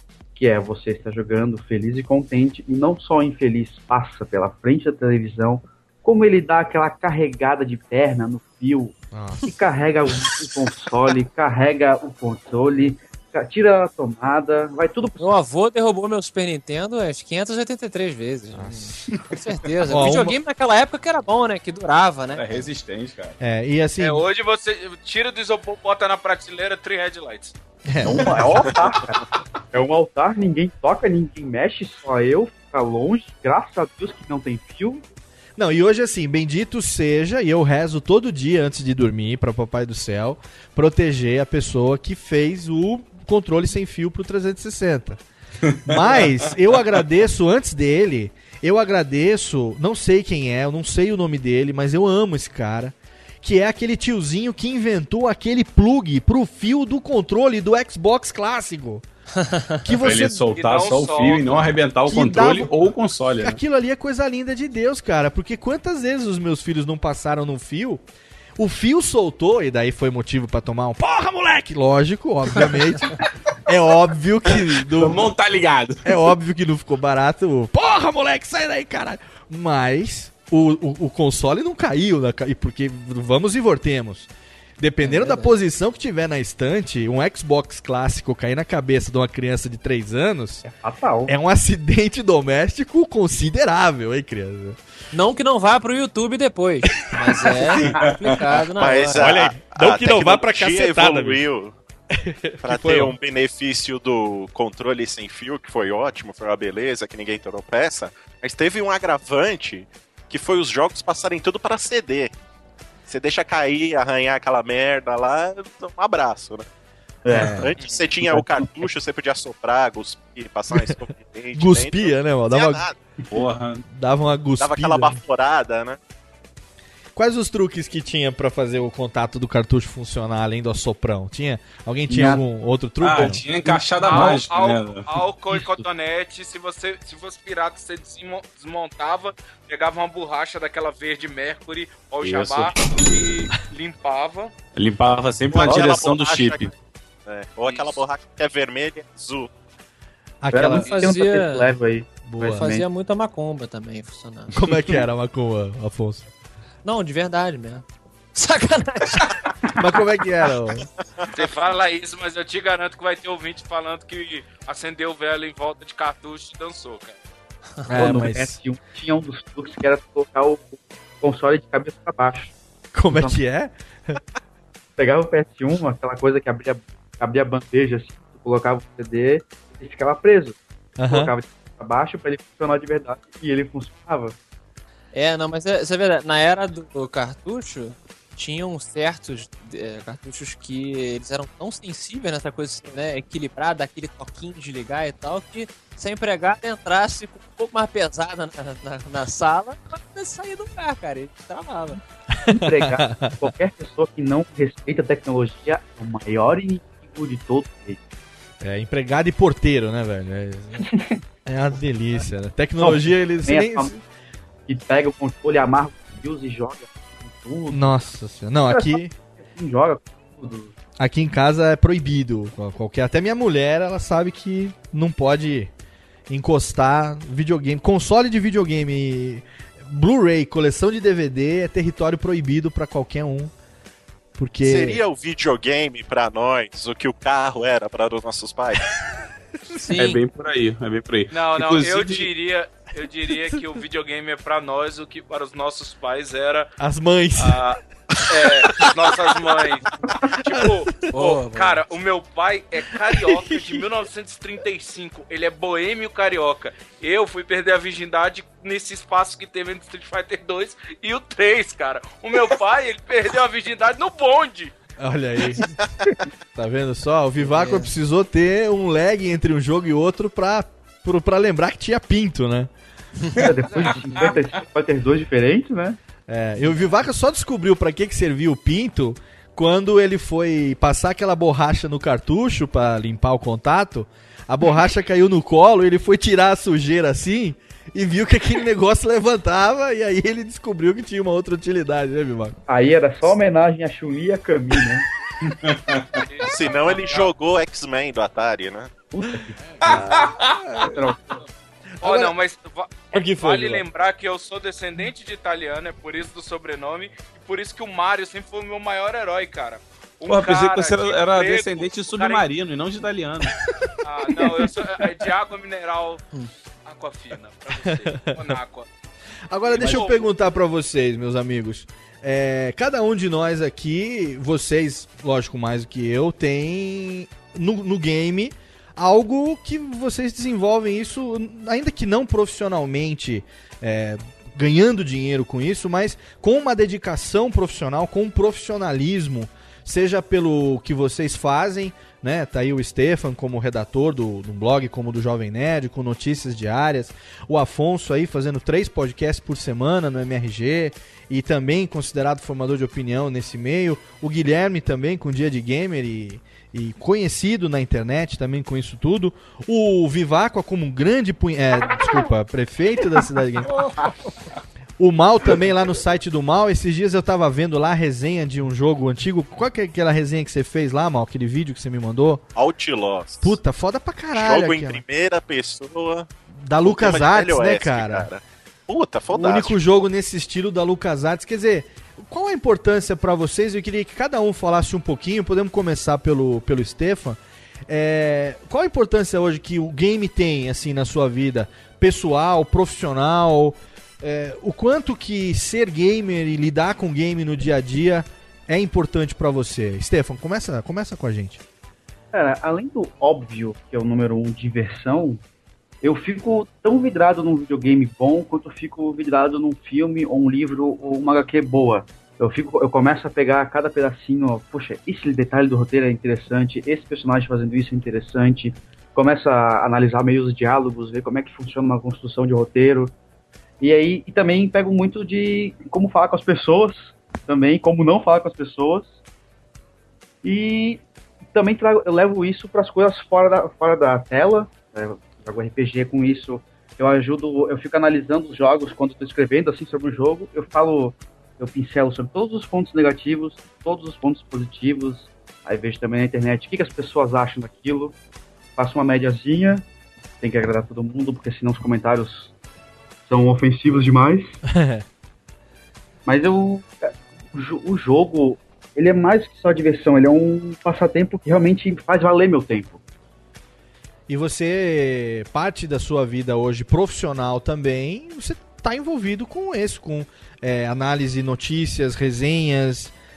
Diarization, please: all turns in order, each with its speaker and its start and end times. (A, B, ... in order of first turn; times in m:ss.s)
0:00.3-0:15.3 A
0:09.1-0:09.4 B
0:15.2-0:22.7 C
0:18.5-0:19.2 B
0:19.8-0:20.4 B
0:22.3-0:23.4 D
0:23.4-0:24.2 B
0:24.0-0:27.5 E
0:27.9-0:28.6 B
0:28.0-0:35.0 A
0:28.2-0:28.9 D
0:35.6-0:45.2 B
0:45.6-0:46.5 D
0:45.8-0:59.0 B
0:59.4-0:59.8 C
0:59.8-1:00.4 B
1:00.0-1:03.6 D
1:00.3-1:01.7 E
1:02.1-1:02.7 B
1:03.4-1:08.0 B
1:08.6-1:15.2 B
1:14.5-1:16.0 D
1:16.0-1:24.3 B
1:24.8-1:30.6 B
1:25.0-1:25.5 C
1:30.7-1:31.3 A
1:31.2-1:34.8 B
1:35.1-1:39.3 C
1:37.8-1:38.4 D
1:38.8-1:41.8 F
1:39.1-1:41.4 B
1:42.1-1:43.1 B
1:42.6-1:52.3 F
1:53.1-1:56.7 F
1:57.2-1:57.7 A
1:57.3-1:57.7 B
1:57.6-2:03.0 F
1:58.2-1:58.9 A
2:00.7-2:01.0 B
2:01.5-2:02.8 B
2:03.3-2:03.8 D
2:03.9-2:05.2 B
2:04.6-2:06.0 F
2:07.2-2:13.4 B
2:12.1-2:12.4 A
2:13.0-2:15.1 D
2:13.1-2:14.4 A
2:14.0-2:24.5 E
2:15.5-2:15.8 A
2:22.2-2:22.7 D
2:24.7-2:26.7 D
2:25.5-2:26.7 F
2:27.2-2:29.5 F
2:27.7-2:28.0 E
2:30.4-2:30.9 B
2:30.5-2:32.8 A
2:30.6-2:31.7 C
2:32.2-2:32.7 B
2:32.4-2:34.5 C
2:34.5-2:36.3 B
2:36.8-2:39.4 C
2:39.8-2:40.9 B
2:41.3-2:47.2 E
2:47.8-2:48.6 B
2:47.9-2:52.5 A
2:52.9-2:54.2 B
2:53.1-2:53.4 A
2:55.0-3:04.4 A
3:01.0-3:01.3 B
3:05.1-3:22.0 C
3:22.3-3:23.5 B
3:22.5-3:28.0 A
3:28.6-3:30.9 B
3:31.4-3:33.9 B
3:32.8-3:34.0 A
3:34.7-3:37.9 A
3:37.7-3:39.1 B
3:38.7-3:40.7 A
3:41.0-3:45.7 B
3:46.3-3:53.5 B
3:54.4-3:55.0 B
3:54.6-3:58.8 F
3:59.8-4:00.2 C
3:59.9-4:02.3 D
4:01.3-4:06.7 E
4:06.8-4:07.6 B
4:07.4-4:24.7 E
4:08.5-4:09.1 B
4:10.1-4:10.8 B
4:11.1-4:11.8 C
4:13.1-4:13.9 B
4:25.0-4:25.8 B
4:26.5-4:32.7 B
4:27.4-4:27.9 C
4:33.4-4:36.0 A
4:36.3-4:52.6 B
4:52.7-4:55.0 A
4:55.5-4:56.2 D
4:56.3-4:57.3 E
4:56.5-4:58.9 F
4:59.1-5:01.4 A
4:59.8-5:00.9 D
4:59.9-5:00.9 B
5:02.0-5:02.3 B
5:02.0-5:12.4 E
5:03.1-5:03.8 B
5:10.2-5:13.6 D
5:14.0-5:16.2 E
5:16.8-5:18.9 E
5:17.7-5:18.5 B
5:19.5-6:03.8 B
5:19.6-5:20.3 E
6:05.0-6:12.4 B
6:12.5-6:13.6 F
6:13.4-6:15.0 B
6:14.3-6:16.3 F
6:16.5-6:18.3 B
6:16.8-6:19.8 F
6:19.3-6:41.6 B
6:42.3-6:45.4 A
6:46.0-7:03.1 A
7:03.8-7:09.2 A
7:10.4-7:28.1 A
7:28.8-7:29.8 A
7:30.4-7:32.5 A
7:33.3-7:34.6 A
7:34.7-7:35.0 B
7:36.2-7:43.0 A
7:44.3-7:53.1 B